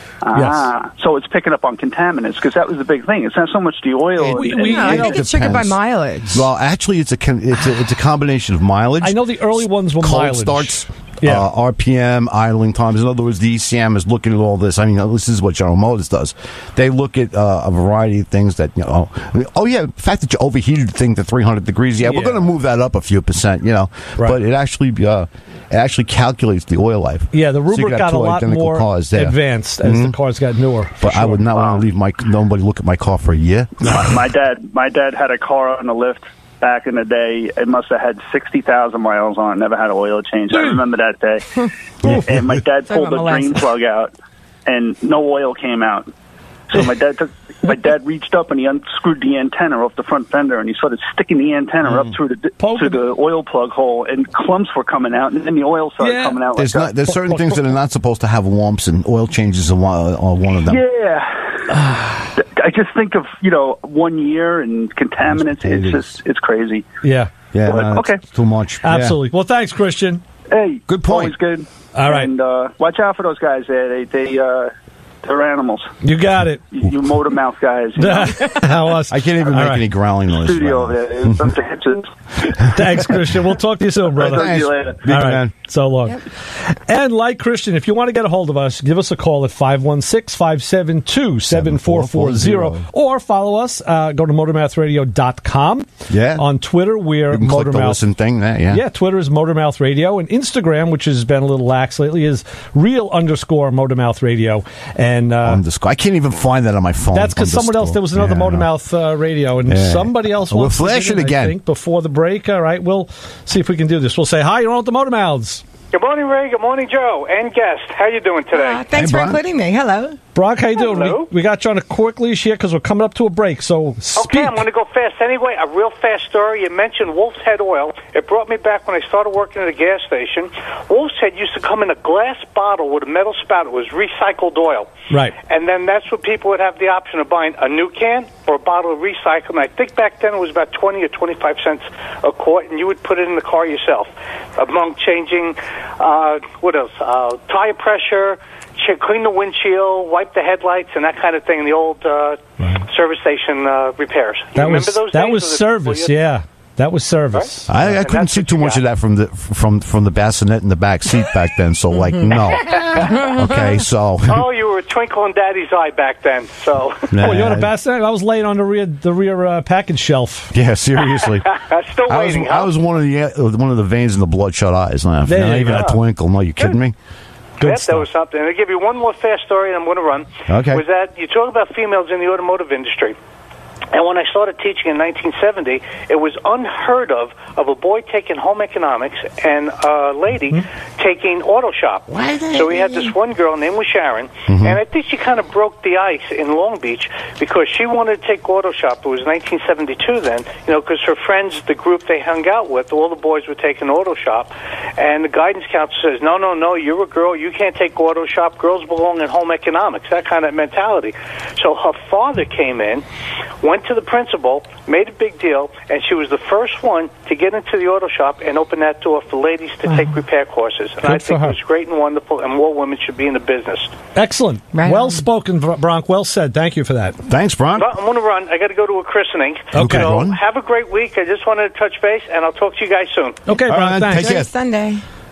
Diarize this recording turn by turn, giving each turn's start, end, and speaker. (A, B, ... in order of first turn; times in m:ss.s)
0:00.2-0:05.0 A
0:00.3-0:00.7 B
0:04.2-0:05.8 C
0:04.3-0:05.2 B
0:04.6-0:06.4 D
0:06.3-0:30.2 C
0:09.0-0:11.5 B
0:22.0-0:22.4 B
0:27.3-0:31.4 B
0:31.0-0:34.0 C
0:31.3-0:31.8 A
0:33.8-0:41.4 A
0:40.5-0:40.8 B
0:42.0-0:44.1 A
0:42.0-0:42.4 B
0:42.8-0:43.6 D
0:44.6-0:46.1 A
0:46.7-0:56.9 A
0:52.6-0:53.1 B
0:56.0-0:56.4 B
0:56.6-1:00.8 C
0:57.0-0:57.8 B
1:00.7-1:01.8 A
1:01.8-1:02.1 B
1:02.3-1:06.8 A
1:05.3-1:06.2 C
1:07.0-1:07.3 B
1:07.5-1:09.2 C
1:07.6-1:08.2 A
1:08.8-1:10.2 B
1:10.5-1:14.7 A
1:10.9-1:11.3 C
1:11.9-1:12.3 B
1:15.2-1:15.9 A
1:16.0-1:17.3 B
1:16.7-1:18.6 A
1:18.0-1:19.8 B
1:19.1-1:21.4 C
1:20.3-1:22.1 A
1:22.6-1:38.1 B
1:24.2-1:25.0 A
1:24.2-1:25.5 C
1:31.5-1:32.8 C
1:36.1-1:36.5 C
1:37.3-1:38.8 C
1:38.7-1:45.6 B
1:45.4-1:48.7 C
1:47.1-1:55.6 B
1:49.6-1:51.6 C
1:55.9-1:58.8 E
1:58.5-2:00.2 D
1:58.9-1:59.4 C
2:00.3-2:04.6 B
2:00.7-2:01.3 E
2:04.2-2:14.9 E
2:15.1-2:15.4 B
2:15.5-2:36.2 E
2:32.6-2:32.8 B
2:34.5-2:38.0 B
2:37.7-2:44.4 C
2:38.0-2:38.8 E
2:42.6-2:43.2 E
2:44.3-2:47.2 E
2:47.1-2:47.7 C
2:47.2-2:50.6 B
2:50.5-2:51.5 C
2:51.0-2:52.7 E
2:52.0-2:56.9 C
2:55.2-2:55.9 B
2:55.7-2:56.0 E
2:57.6-2:58.1 B
2:57.6-3:03.2 E
3:00.5-3:00.8 C
3:03.9-3:33.0 E
3:14.5-3:14.8 C
3:33.6-3:43.9 E
3:41.0-3:41.6 B
3:44.1-3:47.2 B
3:44.7-3:45.2 D
3:47.3-3:47.9 C
3:47.8-3:53.4 E
3:49.7-3:50.2 B
3:49.8-3:50.4 C
3:53.4-3:54.4 B
3:53.7-3:54.5 C
3:54.2-3:55.0 D